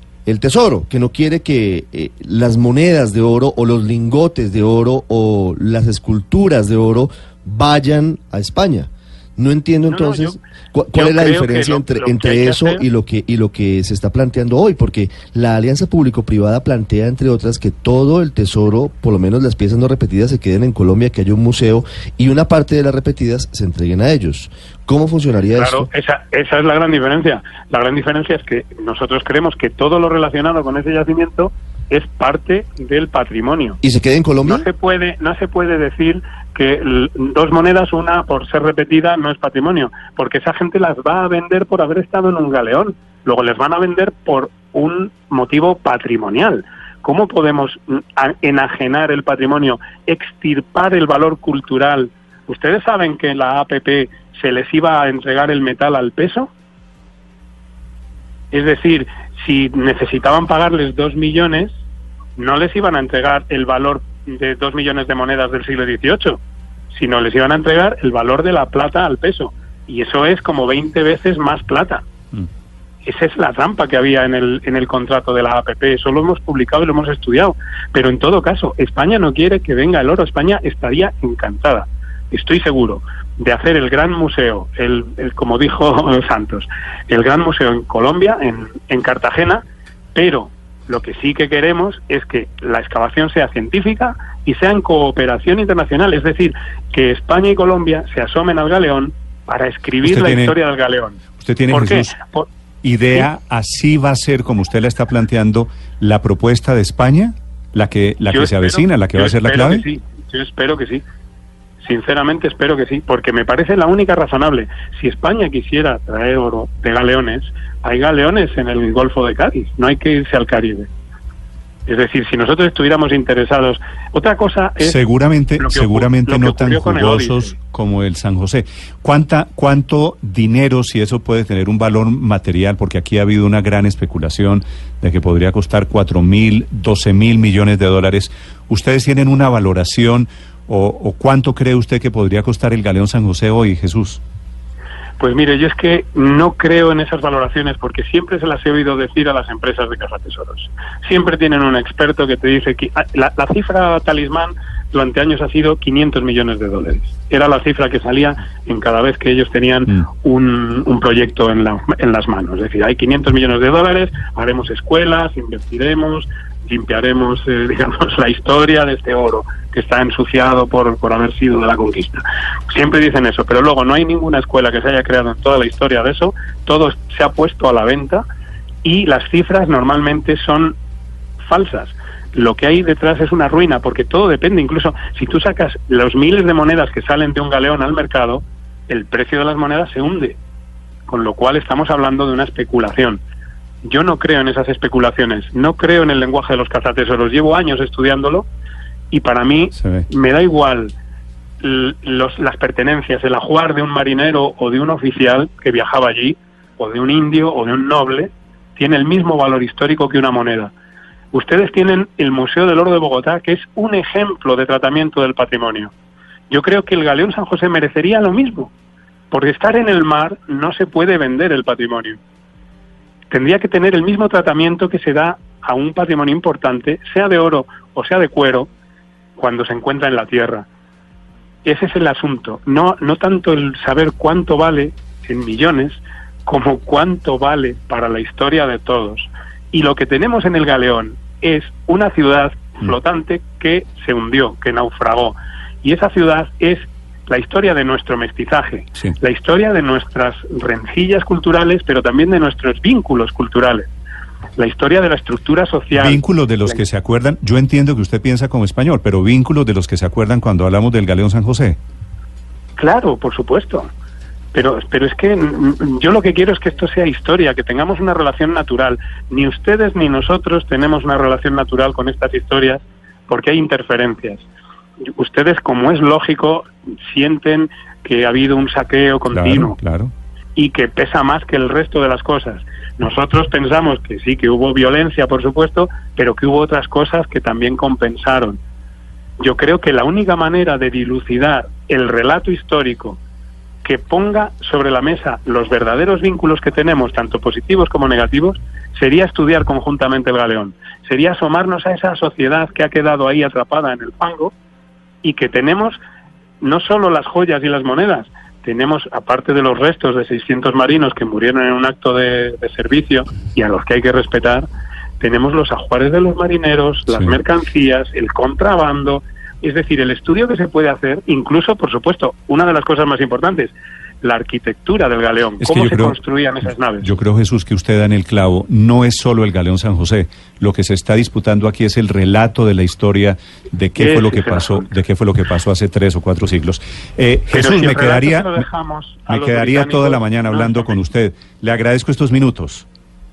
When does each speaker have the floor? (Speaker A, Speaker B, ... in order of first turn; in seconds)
Speaker A: 0.3-25.9, 33.8-34.7
Speaker B: 9.8-10.4, 10.9-12.8, 25.6-33.8, 34.5-56.5, 58.5-61.8, 62.4-66.4, 66.9-72.0, 73.0-89.6, 90.2-102.5, 108.3-111.0, 111.8-120.9, 121.9-125.0, 125.6-127.5, 145.2-178.2, 178.8-180.8, 181.4-190.4, 191.1-193.2, 193.8-198.5, 199.1-200.9, 201.6-210.7, 211.3-215.9, 216.5-218.7, 219.3-222.2, 223.3-228.7, 229.4-230.7, 231.7-253.9, 254.6-256.8, 262.8-263.9, 264.5-274.5, 275.1-279.8, 280.6-288.6, 289.4-293.2, 293.8-304.5, 305.2-306.0, 306.6-314.7, 315.2-327.1, 334.0-334.9, 337.5-340.9
Speaker C: 100.0-100.5, 101.4-102.2, 102.8-109.8, 124.8-144.2, 199.8-200.1, 255.9-261.8, 279.3-280.1, 325.6-326.2, 327.0-338.6, 339.3-342.9